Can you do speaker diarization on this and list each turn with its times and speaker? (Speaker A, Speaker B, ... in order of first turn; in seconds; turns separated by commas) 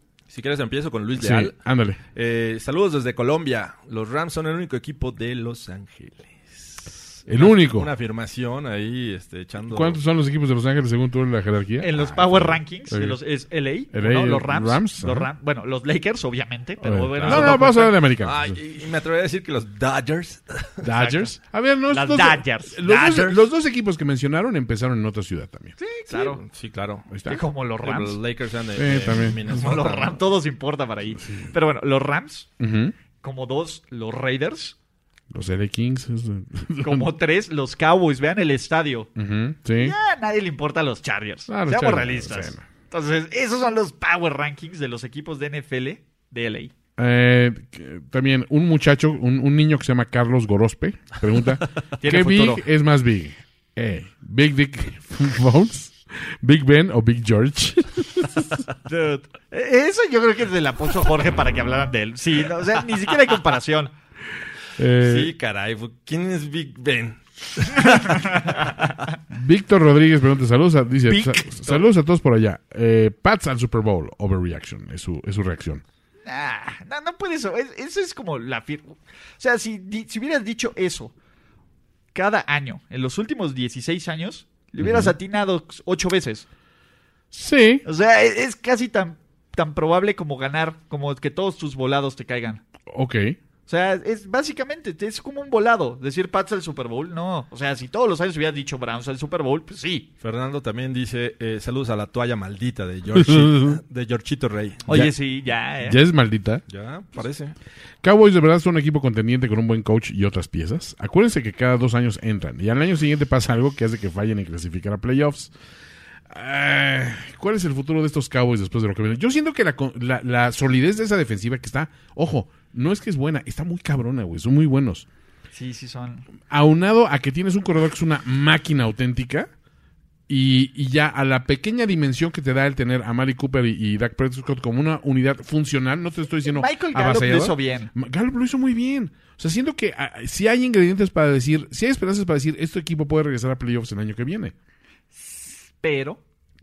Speaker A: 0.3-1.6, Speaker B: 1.2-2.0, Speaker A: 2.1-10.0, Speaker B: 7.3-7.9, Speaker B: 9.7-13.2, Speaker C: 11.8-17.9, Speaker B: 13.9-15.3, Speaker B: 16.8-18.6, Speaker A: 17.2-20.8, Speaker B: 20.8-25.7, Speaker C: 20.9-21.4, Speaker C: 21.9-23.4, Speaker C: 25.8-26.4, Speaker A: 26.1-27.1, Speaker B: 27.1-27.4, Speaker C: 27.2-28.2, Speaker A: 27.8-30.2, Speaker B: 28.8-29.5, Speaker C: 29.5-32.5, Speaker B: 31.2-31.5, Speaker B: 32.6-32.9, Speaker C: 33.2-34.8, Speaker B: 35.3-37.1, Speaker C: 36.8-39.1, Speaker B: 39.1-39.9, Speaker C: 39.8-46.7, Speaker B: 41.5-42.6, Speaker B: 47.0-58.6, Speaker C: 52.0-52.6, Speaker C: 58.9-63.9, Speaker B: 64.8-65.3, Speaker A: 65.0-68.4, Speaker C: 67.8-68.9, Speaker B: 69.3-75.8, Speaker C: 71.1-71.8, Speaker C: 76.2-81.1, Speaker C: 82.1-86.5, Speaker B: 84.8-85.1, Speaker B: 87.3-87.8, Speaker C: 87.8-92.6, Speaker B: 92.9-93.4, Speaker C: 93.7-100.1, Speaker A: 100.2-104.9, Speaker B: 103.1-103.8, Speaker C: 104.8-106.0, Speaker B: 104.9-105.1, Speaker B: 105.8-106.6, Speaker A: 106.7-107.5, Speaker B: 108.0-115.5, Speaker B: 116.3-125.0, Speaker C: 125.5-126.2, Speaker B: 126.5-129.5, Speaker B: 130.3-144.5, Speaker C: 136.5-137.9, Speaker C: 145.1-146.2